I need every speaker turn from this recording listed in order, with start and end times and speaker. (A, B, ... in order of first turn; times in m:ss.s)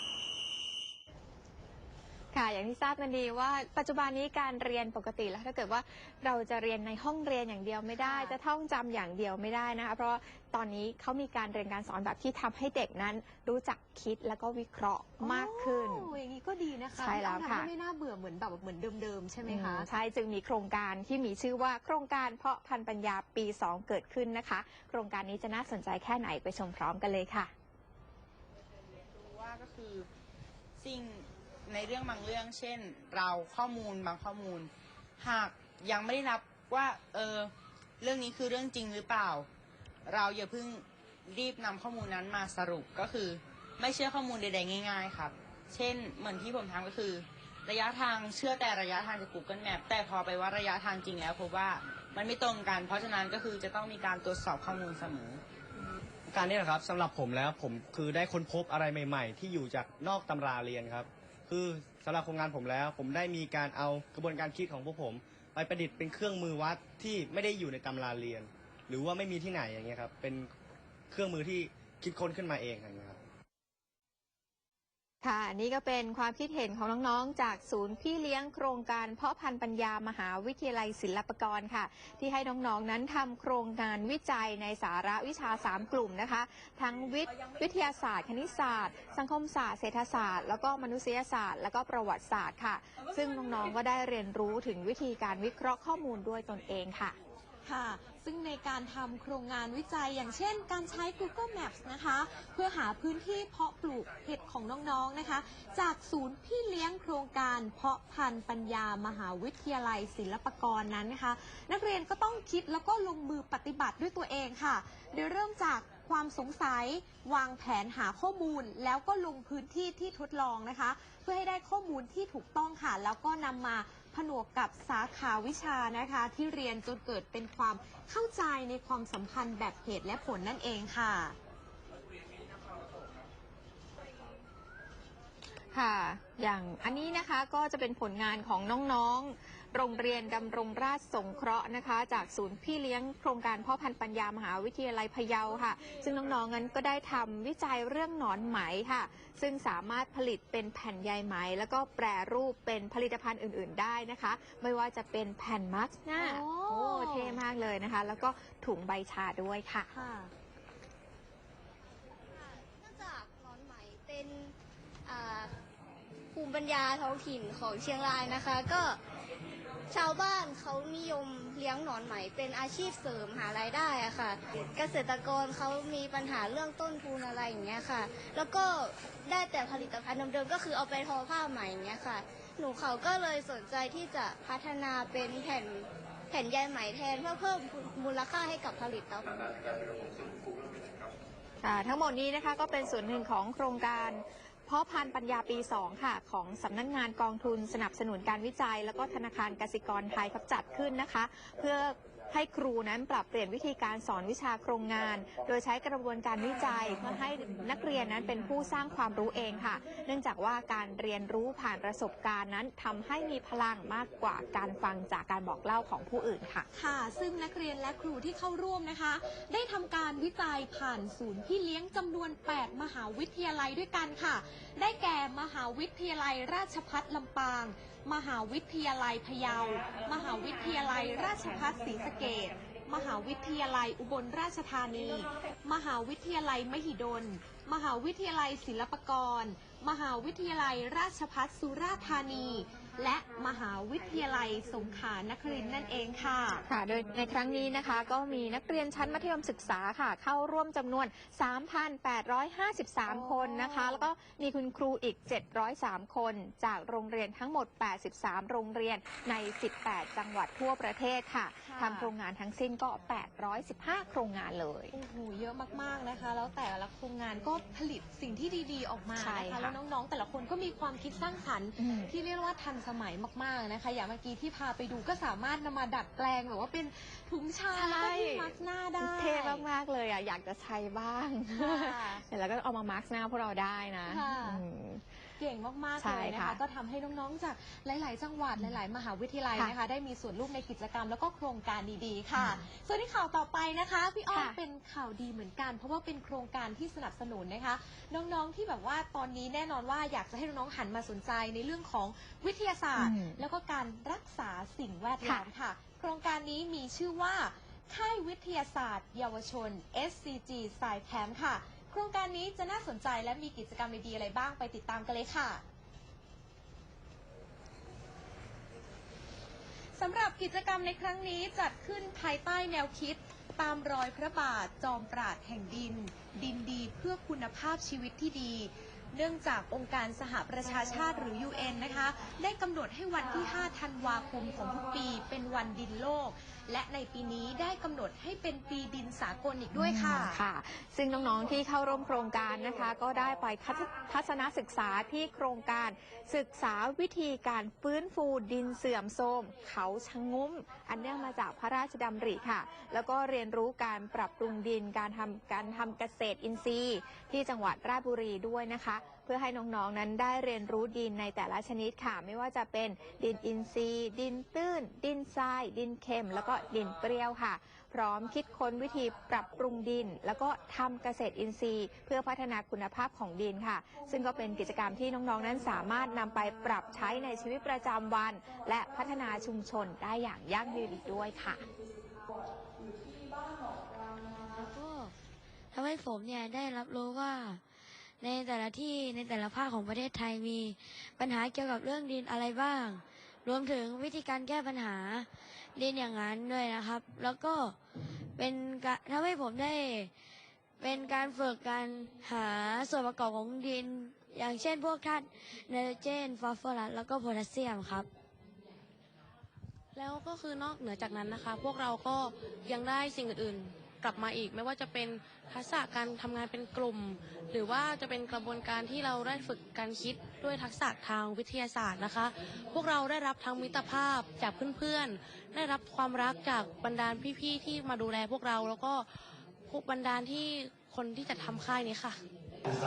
0:02.3-0:16.1 A
0:08.0-0:08.4 B
0:15.2-0:19.9 B
0:17.0-0:17.7 A
0:19.4-0:27.5 A
0:29.2-0:30.1 C
0:30.8-0:39.5 C
0:40.1-0:55.4 C
0:56.3-1:10.5 D
1:11.1-1:13.2 D
1:15.2-1:37.2 A
1:37.6-2:11.4 B
2:15.7-2:39.9 A
2:36.2-2:37.4 B
2:39.9-2:40.3 B
2:42.6-2:44.5 E
2:45.1-2:45.5 E
2:46.3-2:49.0 E
2:49.9-3:09.4 E
3:11.6-3:36.7 A
3:36.7-4:06.6 B
4:06.7-4:25.0 A
4:13.1-4:14.1 B
4:21.6-4:22.1 B
4:24.9-4:39.6 B
4:29.2-4:29.8 A
4:31.8-4:32.1 A
4:37.7-4:45.0 A
4:41.6-4:42.3 B
4:44.1-4:44.6 B
4:45.4-5:15.6 B
4:46.0-4:46.6 A
4:52.4-4:52.6 A
4:54.3-4:54.6 A
5:03.0-5:03.4 A
5:05.2-5:05.5 A
5:20.0-5:40.4 B
5:39.7-6:21.7 A
6:24.7-6:25.1 F
6:25.7-6:27.6 F
6:28.2-6:37.8 F
6:38.4-6:40.1 F
6:40.8-6:48.1 F
6:50.0-7:12.2 G